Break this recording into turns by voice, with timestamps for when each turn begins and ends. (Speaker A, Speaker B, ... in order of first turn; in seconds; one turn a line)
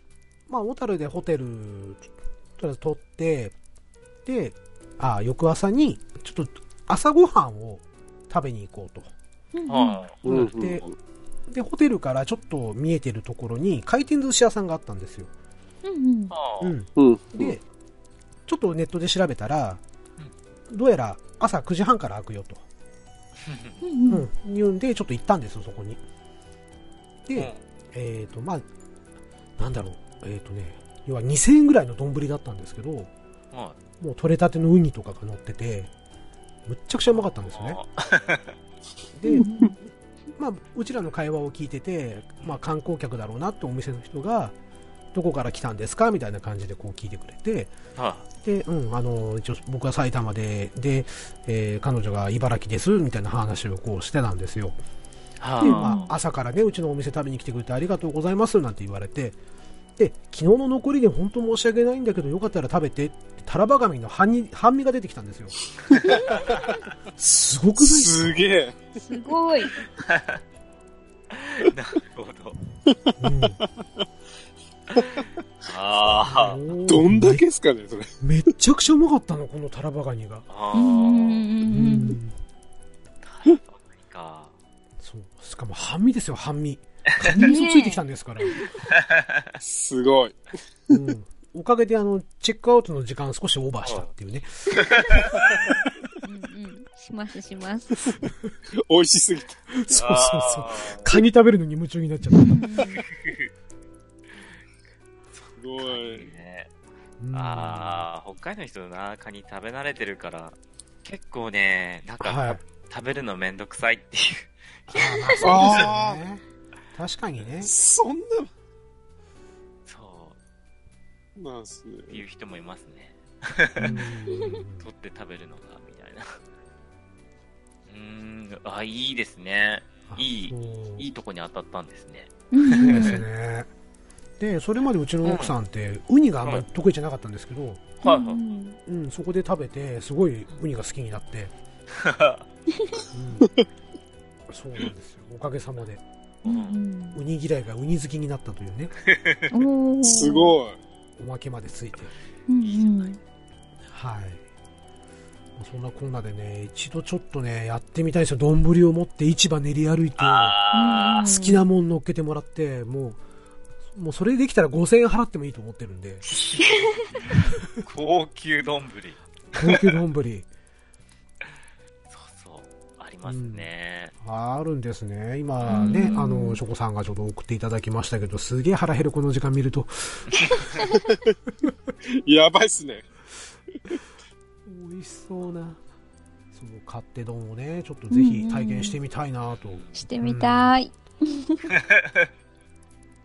Speaker A: 0.5-2.0
Speaker A: 2.6-3.5
Speaker A: 4.2-9.1
Speaker B: 9.5-10.0
Speaker C: 9.7-10.1
Speaker D: 10.2-10.9
Speaker A: 10.2-10.8
Speaker A: 11.5-15.3
Speaker B: 15.8-16.3
Speaker C: 16.3-16.7
Speaker A: 16.6-17.6
Speaker D: 16.9-17.5
Speaker A: 18.5-19.8
Speaker A: 20.7-22.6
Speaker C: 23.4-23.8
Speaker B: 23.8-24.3
Speaker A: 24.1-26.0
Speaker A: 27.3-28.6
Speaker C: 27.3-27.6
Speaker A: 29.6-33.1
Speaker A: 34.0-35.9
Speaker A: 36.7-37.8
Speaker C: 37.1-38.5
Speaker A: 39.1-39.6
Speaker B: 39.3-39.7
Speaker A: 40.4-44.5
Speaker A: 45.1-47.7
Speaker C: 48.0-48.2
Speaker A: 48.4-54.7
Speaker C: 55.4-56.0
Speaker B: 55.6-56.1
Speaker A: 55.6-59.3
Speaker A: 60.0-65.5
Speaker D: 66.1-66.5
Speaker A: 67.2-68.4
Speaker D: 67.8-68.9
Speaker B: 68.9-69.7
Speaker C: 70.0-70.4
Speaker C: 71.3-72.6
Speaker A: 73.2-73.6
Speaker D: 75.0-75.2
Speaker C: 75.6-76.6
Speaker A: 76.0-77.4
Speaker D: 76.9-78.1
Speaker A: 78.2-80.4
Speaker C: 80.5-81.5
Speaker B: 80.7-82.2
Speaker A: 81.7-82.3
Speaker C: 83.2-84.5
Speaker A: 85.0-88.6
Speaker B: 87.4-88.6
Speaker C: 88.9-89.5
Speaker D: 89.6-90.4
Speaker A: 90.9-94.5
Speaker C: 94.9-95.6
Speaker B: 96.2-98.0
Speaker D: 98.7-99.6
Speaker A: 99.7-102.6
Speaker C: 99.9-101.2
Speaker B: 102.4-103.0
Speaker C: 103.0-103.5
Speaker C: 105.3-106.7
Speaker D: 105.6-106.3
Speaker A: 107.2-108.0
Speaker C: 107.3-115.9
Speaker A: 112.2-112.6
Speaker A: 114.9-116.4
Speaker D: 115.4-116.2
Speaker A: 116.9-117.7
Speaker D: 117.6-118.5
Speaker C: 119.8-120.3
Speaker D: 121.3-122.2
Speaker C: 122.1-124.0
Speaker A: 123.8-124.9
Speaker B: 124.3-124.6
Speaker C: 124.8-126.4
Speaker C: 127.9-133.2
Speaker A: 130.1-131.1
Speaker B: 132.5-133.2
Speaker A: 132.8-133.7
Speaker A: 134.4-137.8
Speaker C: 135.2-135.5
Speaker C: 138.0-138.4
Speaker B: 138.0-138.8
Speaker A: 138.8-141.5
Speaker C: 141.9-142.4
Speaker B: 142.7-143.0
Speaker A: 143.1-143.5
Speaker D: 143.4-143.7
Speaker A: 144.5-146.0
Speaker C: 146.4-146.8
Speaker B: 146.4-147.2
Speaker A: 147.1-148.9
Speaker C: 149.1-149.4
Speaker B: 149.5-150.5
Speaker D: 150.0-150.8
Speaker A: 151.2-152.1
Speaker B: 152.5-153.2
Speaker C: 152.6-153.1
Speaker A: 153.9-154.4
Speaker A: 155.6-160.5
Speaker C: 160.2-161.3
Speaker B: 160.7-161.6
Speaker A: 161.2-163.2
Speaker A: 163.9-166.2
Speaker C: 166.3-169.8
Speaker B: 166.6-167.1
Speaker A: 169.5-170.5
Speaker C: 172.1-174.1
Speaker A: 173.2-173.7
Speaker A: 174.2-180.3
Speaker C: 175.6-176.2
Speaker B: 175.7-176.6
Speaker D: 182.1-183.0
Speaker A: 184.7-185.8
Speaker A: 186.5-190.7
Speaker B: 188.1-189.0
Speaker B: 189.9-191.7
Speaker C: 191.7-192.3